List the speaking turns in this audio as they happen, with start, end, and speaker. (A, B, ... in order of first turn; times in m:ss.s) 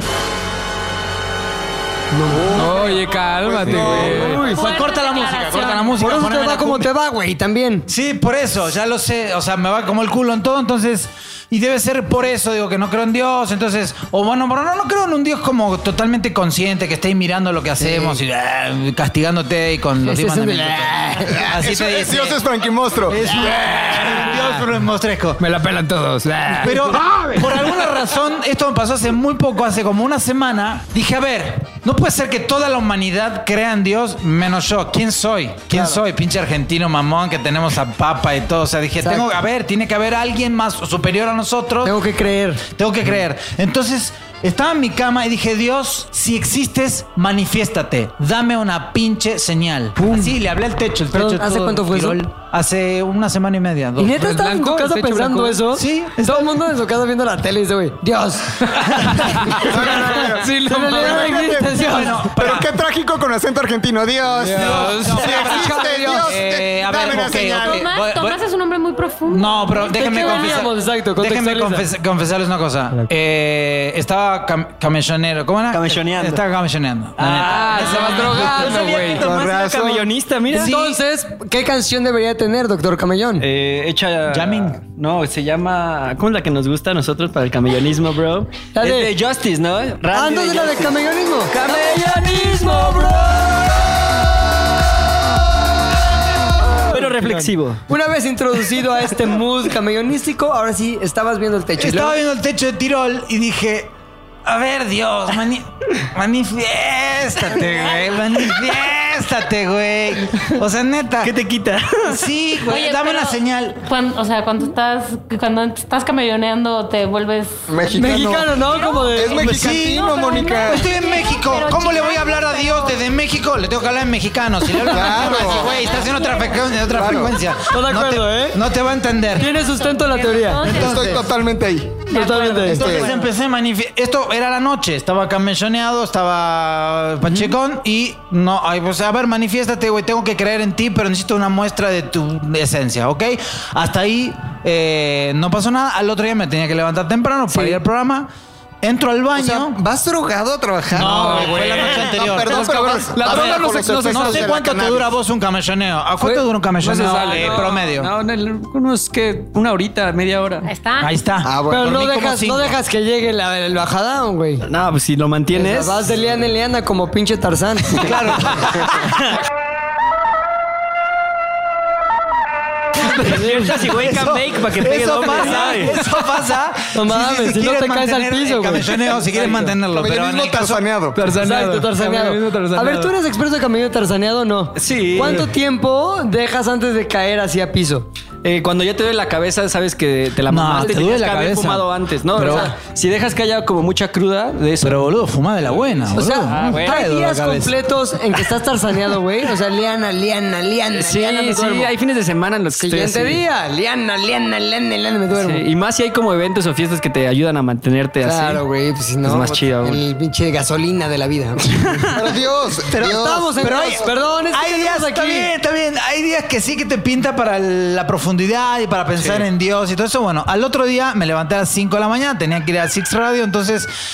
0:02.1-0:03.0 A
0:02.5-0:04.4 B
0:03.4-0:04.2 C
0:03.6-0:06.9 D
0:03.6-0:04.7 A
0:04.4-0:06.2 E
0:06.0-0:07.9 A
0:07.9-0:22.4 D
0:17.8-0:18.2 A
0:20.0-0:21.4 A
0:21.2-0:23.9 C
0:23.1-0:25.4 D
0:25.4-0:27.4 B
0:26.6-0:42.0 D
0:35.7-0:36.0 A
0:39.0-0:39.3 A
0:41.8-0:42.6 A
0:42.7-0:54.2 D
0:50.0-0:50.3 A
0:51.1-0:52.2 A
0:54.0-1:02.2 A
0:54.1-0:55.7 B
0:55.7-0:56.5 D
0:58.8-1:01.6 B
0:59.4-1:07.9 C
1:01.7-1:02.7 D
1:04.5-1:05.0 B
1:04.5-1:08.4 D
1:04.8-1:06.3 A
1:07.5-1:10.7 E
1:09.3-1:18.7 D
1:09.9-1:11.9 A
1:15.7-1:16.4 F
1:17.2-1:20.9 F
1:17.5-1:19.2 B
1:19.0-1:20.1 C
1:20.5-1:23.4 A
1:23.4-1:33.4 F
1:24.3-1:24.8 D
1:28.7-1:29.1 A
1:30.1-1:33.4 A
1:36.9-1:37.8 F
1:36.9-1:42.1 A
1:41.8-1:43.9 D
1:44.4-1:51.3 D
1:51.2-1:52.2 F
1:52.0-1:53.8 D
1:52.7-1:57.6 E
1:57.7-1:58.6 C
1:57.9-1:59.5 A
1:58.6-2:03.0 E
1:59.1-2:00.9 C
1:59.4-2:09.5 D
2:04.9-2:05.9 C
2:04.9-2:06.8 E
2:06.8-2:07.4 C
2:07.7-2:08.6 A
2:09.4-2:10.7 A
2:09.6-2:11.2 E
2:10.6-2:12.1 C
2:10.7-2:11.2 D
2:12.1-2:13.2 E
2:12.1-2:12.9 A
2:12.7-2:13.1 C
2:12.7-2:28.3 D
2:17.2-2:17.5 A
2:28.8-2:29.8 D
2:29.3-2:35.1 C
2:30.9-2:38.1 D
2:31.0-2:31.8 B
2:32.5-2:34.5 B
2:36.8-2:40.7 F
2:37.0-2:37.7 B
2:40.6-2:41.2 E
2:41.0-2:42.8 D
2:41.4-2:42.0 C
2:41.7-2:44.6 A
2:44.7-2:46.0 F
2:45.5-2:48.1 A
2:48.0-2:49.2 D
2:53.0-2:56.0 F
2:53.2-2:53.7 A
2:53.9-3:00.8 D
2:55.4-2:55.7 A
2:56.9-2:59.7 A
2:59.4-2:59.7 F
2:59.9-3:01.2 C
3:01.2-3:03.1 B
3:01.3-3:08.1 A
3:04.8-3:05.5 F
3:08.4-3:17.7 F
3:10.5-3:12.7 D
3:12.4-3:12.7 A
3:14.8-3:17.6 D
3:16.1-3:21.9 A
3:20.9-3:23.4 F
3:22.7-3:25.6 A
3:25.3-3:28.6 F
3:28.2-3:32.1 A
3:29.2-3:30.0 F
3:32.1-3:34.1 C
3:32.9-3:35.5 A
3:33.6-3:43.9 D
3:39.2-3:39.4 F